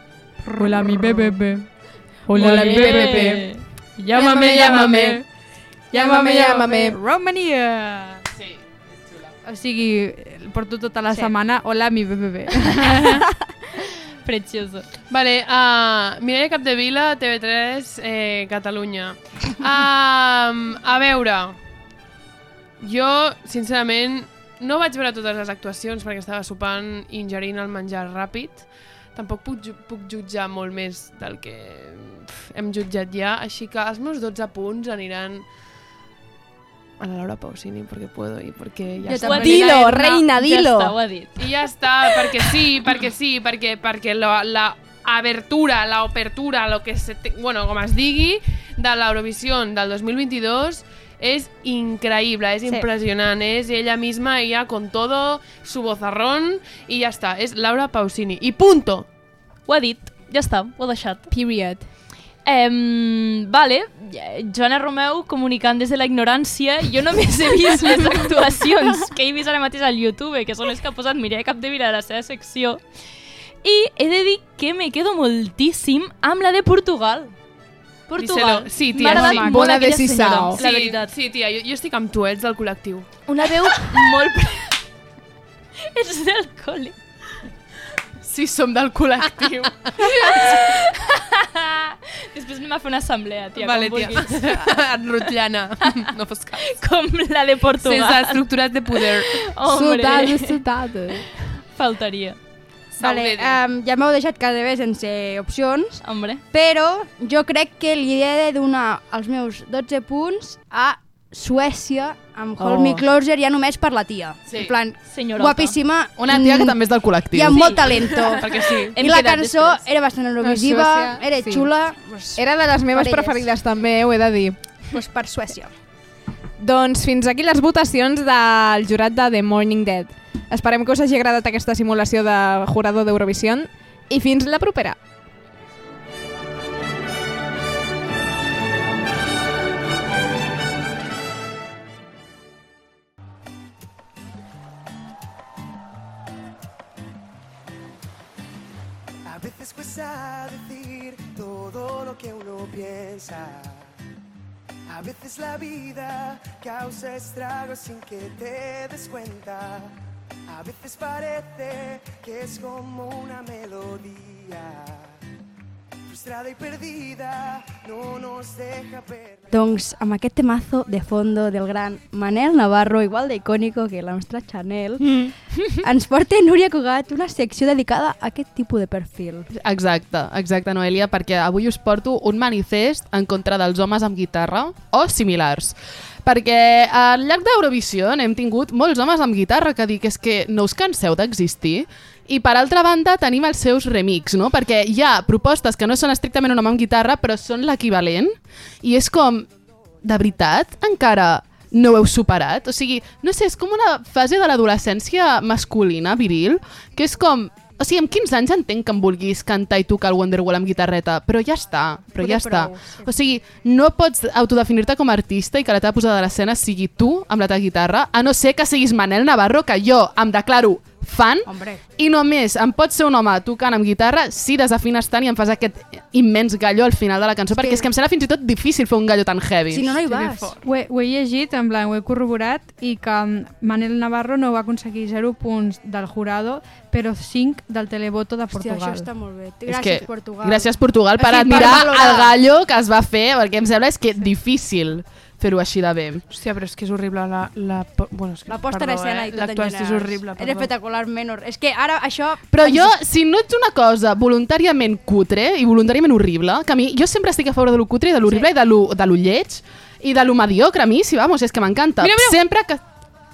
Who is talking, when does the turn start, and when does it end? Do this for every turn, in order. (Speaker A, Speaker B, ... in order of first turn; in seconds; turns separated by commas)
Speaker A: 0.4-1.7, Speaker A: 2.3-5.2, Speaker B: 2.3-3.4, Speaker C: 2.3-3.6, Speaker B: 4.1-5.2, Speaker D: 4.5-5.2, Speaker B: 5.9-7.0, Speaker A: 5.9-8.2, Speaker A: 9.4-13.2, Speaker C: 14.2-14.9, Speaker E: 15.1-21.6, Speaker E: 22.8-35.5, Speaker E: 37.0-39.6, Speaker F: 39.1-39.6, Speaker C: 39.1-41.5, Speaker B: 39.2-41.0, Speaker E: 41.4-59.1, Speaker C: 59.7-61.2, Speaker B: 61.3-61.9, Speaker C: 62.4-72.8, Speaker C: 73.6-77.3, Speaker C: 78.1-81.1, Speaker E: 78.2-79.7, Speaker B: 79.1-80.6, Speaker E: 80.5-83.9, Speaker C: 83.3-84.7, Speaker C: 85.9-86.9, Speaker D: 88.2-89.7, Speaker E: 89.9-90.5, Speaker C: 90.3-94.6, Speaker E: 93.6-96.8, Speaker C: 96.7-98.5, Speaker E: 97.8-99.5, Speaker C: 99.0-100.6, Speaker B: 99.6-101.3, Speaker C: 101.7-102.4, Speaker E: 102.9-103.6, Speaker F: 103.0-116.8, Speaker C: 106.0-106.4, Speaker B: 112.6-113.0, Speaker C: 115.1-115.8, Speaker D: 116.2-117.8, Speaker F: 117.3-122.4, Speaker C: 117.5-118.4, Speaker E: 118.2-118.9, Speaker C: 118.9-119.8, Speaker B: 120.4-121.7, Speaker B: 122.4-124.5, Speaker F: 122.9-123.5, Speaker F: 124.9-125.7, Speaker B: 126.6-135.0, Speaker G: 149.2-153.8, Speaker G: 154.9-159.9, Speaker G: 160.5-165.0, Speaker G: 166.1-169.6, Speaker F: 169.5-175.2, Speaker B: 175.0-175.3, Speaker F: 175.8-179.5, Speaker D: 179.5-199.5, Speaker D: 200.0-230.0, Speaker F: 212.2-213.1, Speaker F: 221.4-221.8, Speaker F: 227.6-227.9, Speaker F: 229.7-230.6, Speaker E: 230.1-230.6, Speaker A: 230.6-239.1, Speaker F: 238.5-242.3, Speaker D: 239.7-246.2, Speaker A: 241.5-241.9, Speaker E: 246.3-250.7, Speaker F: 248.5-252.9, Speaker D: 252.5-262.8, Speaker E: 262.0-262.3